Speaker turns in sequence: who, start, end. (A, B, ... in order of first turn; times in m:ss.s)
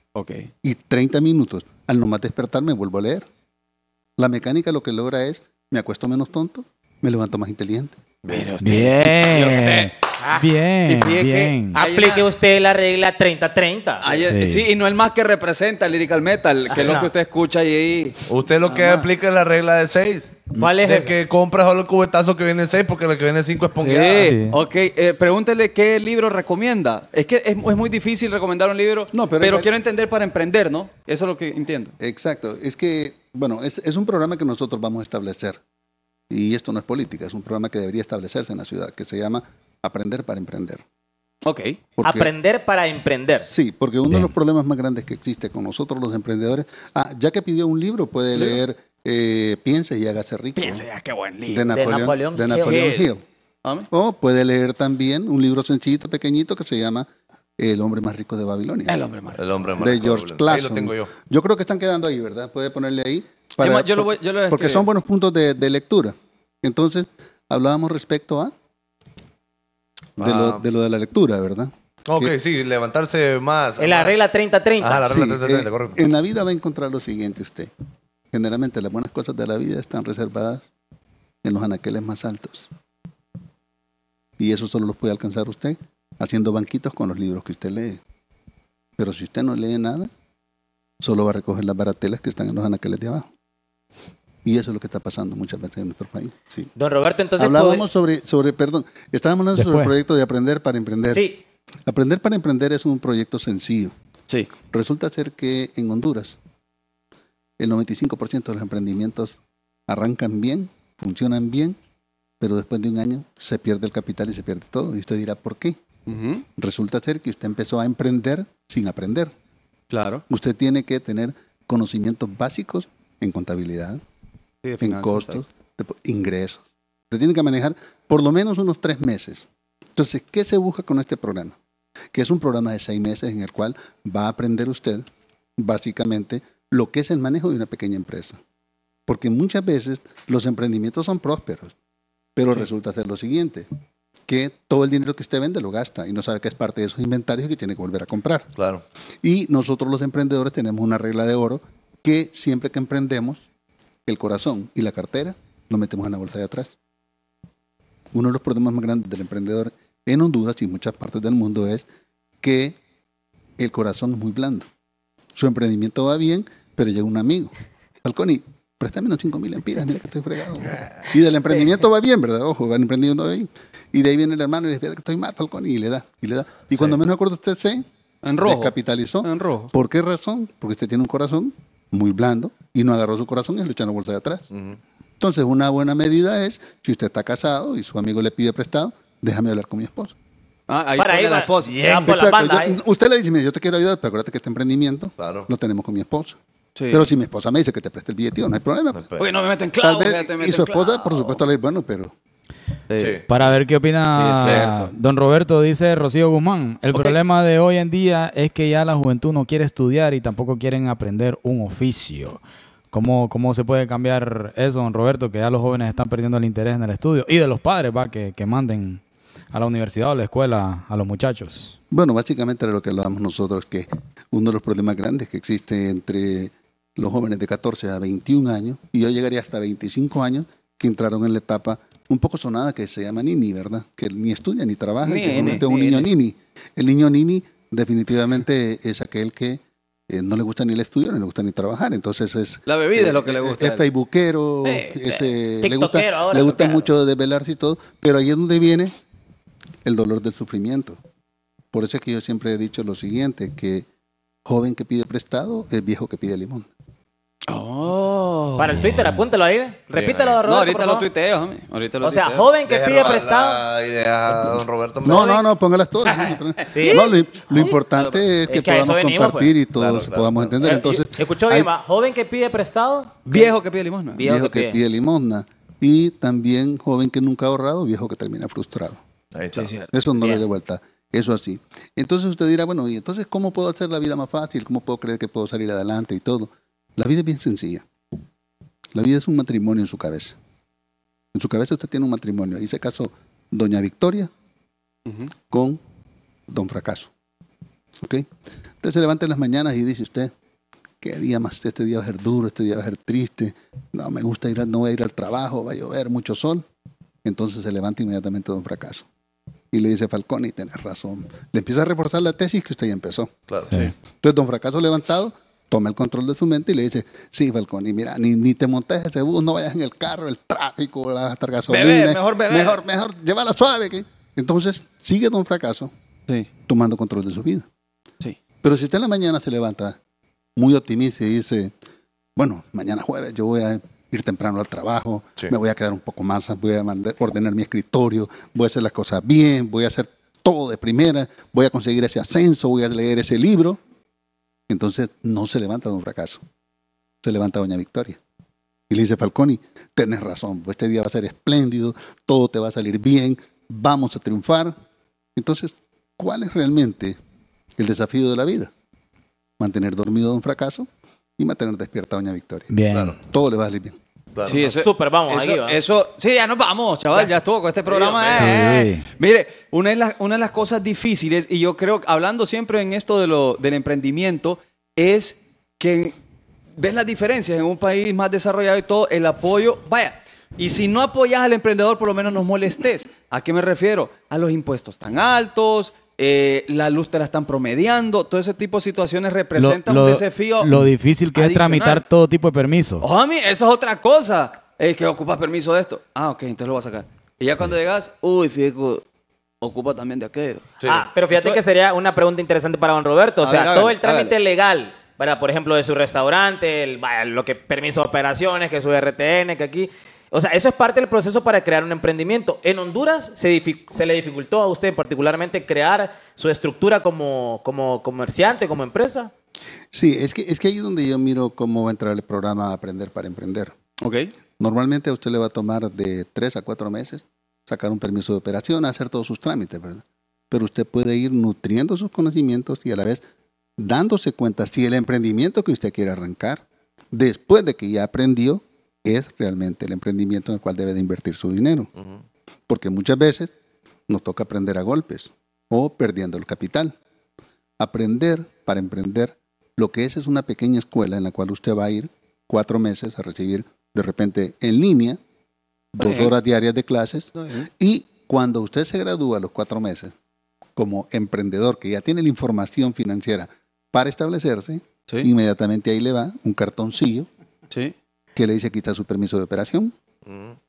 0:00.1-0:00.5 A
0:00.6-0:03.3 B
0:04.2-0:08.0 B
0:08.2-0:08.5 C
0:08.3-0:09.9 A
0:08.6-0:11.8 D
0:10.8-0:12.3 A
0:11.7-0:14.2 E
0:14.0-0:19.1 A
0:14.2-0:14.7 D
0:16.7-0:17.1 E
0:18.3-0:24.3 C
0:20.5-0:21.1 E
0:23.8-0:31.9 A
0:24.2-0:24.6 D
0:29.1-0:29.7 B
0:32.0-0:35.6 B
0:36.3-0:40.8 B
0:41.4-0:41.8 A
0:42.0-0:42.3 B
0:42.0-0:43.5 E
0:43.4-0:50.8 B
0:50.6-0:51.7 A
0:51.5-0:53.2 B
0:51.7-0:52.9 E
0:52.6-0:53.1 A
0:53.9-0:57.1 B
0:57.6-0:59.0 B
0:58.9-0:59.4 A
0:59.4-1:01.1 C
0:59.8-1:08.5 B
1:03.6-1:04.9 A
1:10.2-1:10.6 C
1:10.2-1:12.3 B
1:12.1-1:14.2 C
1:13.8-1:15.0 E
1:14.8-1:16.0 C
1:15.0-1:17.7 B
1:18.3-1:20.7 B
1:21.4-1:22.7 B
1:24.4-1:28.0 B
1:29.0-1:30.1 B
1:31.0-1:33.3 B
1:34.4-1:36.7 B
1:36.8-1:37.8 E
1:37.4-1:41.2 B
1:39.6-1:39.9 D
1:41.1-1:41.4 E
1:41.9-1:43.9 B
1:44.7-1:46.4 B
1:47.6-1:51.8 B
1:52.4-1:55.8 B
1:56.1-1:56.4 A
1:56.6-1:59.3 B
1:59.9-2:00.2 A
2:00.3-2:04.0 B
2:04.6-2:05.4 A
2:04.8-2:11.6 B
2:12.1-2:18.4 B
2:19.1-2:21.7 B
2:22.4-2:23.7 B
2:24.3-2:28.5 B
2:28.6-2:28.8 C
2:29.2-2:33.4 B
2:34.0-2:36.7 B
2:38.1-2:41.8 B
2:42.4-2:42.8 B
2:43.6-2:44.7 B
2:45.3-2:47.5 B
2:48.0-2:57.8 B
2:58.2-2:59.7 A
2:58.4-3:04.4 B
3:04.5-3:04.8 C
3:05.2-3:10.1 B
3:10.7-3:11.9 A
3:11.0-3:12.8 E
3:11.6-3:12.1 C
3:12.0-3:16.4 B
3:15.2-3:15.5 C
3:16.8-3:17.1 A
3:16.9-3:19.1 B
3:19.2-3:21.4 A
3:19.8-3:22.1 B
3:22.9-3:23.2 A
3:23.0-3:23.2 C
3:23.3-3:32.4 D
3:24.1-3:24.9 A
3:24.4-3:24.7 C
3:32.9-3:39.0 D
3:39.5-3:41.7 D
3:41.9-4:08.9 B
3:55.0-3:56.1 A
4:02.7-4:03.8 A
4:04.6-4:05.2 A
4:05.6-4:06.8 E
4:09.8-4:11.0 B
4:11.7-4:13.8 B
4:14.4-4:16.7 B
4:17.5-4:18.8 A
4:18.6-4:21.1 E
4:19.9-4:20.4 C
4:20.4-4:22.5 A
4:22.0-4:23.6 E
4:22.7-4:25.3 C
4:24.3-4:31.7 B
4:25.1-4:25.4 E
4:26.7-4:27.1 E
4:26.8-4:28.2 A
4:28.5-4:29.5 E
4:29.7-4:30.5 C
4:30.6-4:33.5 E
4:33.3-4:34.2 A
4:34.1-4:34.8 E
4:34.2-4:39.0 B
4:39.3-4:39.7 C
4:39.5-4:39.9 A
4:39.9-4:47.8 B
4:48.9-4:50.4 B
4:51.3-4:54.3 B
4:55.0-4:55.3 A
4:55.5-4:55.8 B
4:56.5-4:57.1 B
4:58.0-4:58.3 B
4:58.8-5:00.3 B
5:01.0-5:06.6 B
5:07.2-5:09.0 B
5:09.7-5:13.3 B
5:14.2-5:25.9 B
5:21.7-5:22.8 A
5:26.7-5:27.7 B
5:28.6-5:30.0 B
5:30.6-5:31.7 B
5:32.4-5:43.8 B
5:44.7-5:46.4 B
5:47.2-5:48.2 B
5:48.9-5:54.7 B
5:55.4-5:57.2 B
5:57.8-5:58.7 B
5:59.6-6:04.0 B
6:02.7-6:03.1 D
6:02.9-6:03.2 C
6:04.3-6:04.6 C
6:04.4-6:16.1 A
6:04.6-6:05.8 E
6:07.9-6:08.6 C
6:08.4-6:09.0 D
6:16.8-6:32.0 A
6:29.6-6:33.0 D
6:33.0-6:39.0 A
6:39.6-6:40.7 A
6:40.8-6:59.3 E
6:41.3-6:41.6 A
6:43.4-6:44.3 A
6:59.9-7:03.7 B
7:04.0-7:04.3 A
7:04.6-7:13.2 B
7:13.8-7:21.9 B
7:22.7-7:23.5 B
7:24.1-7:27.0 B
7:27.8-7:35.2 B
7:35.9-7:40.1 B
7:36.0-7:36.3 A
7:37.4-7:37.7 A
7:40.8-7:47.3 B
7:48.4-7:49.9 B
7:50.2-7:50.5 C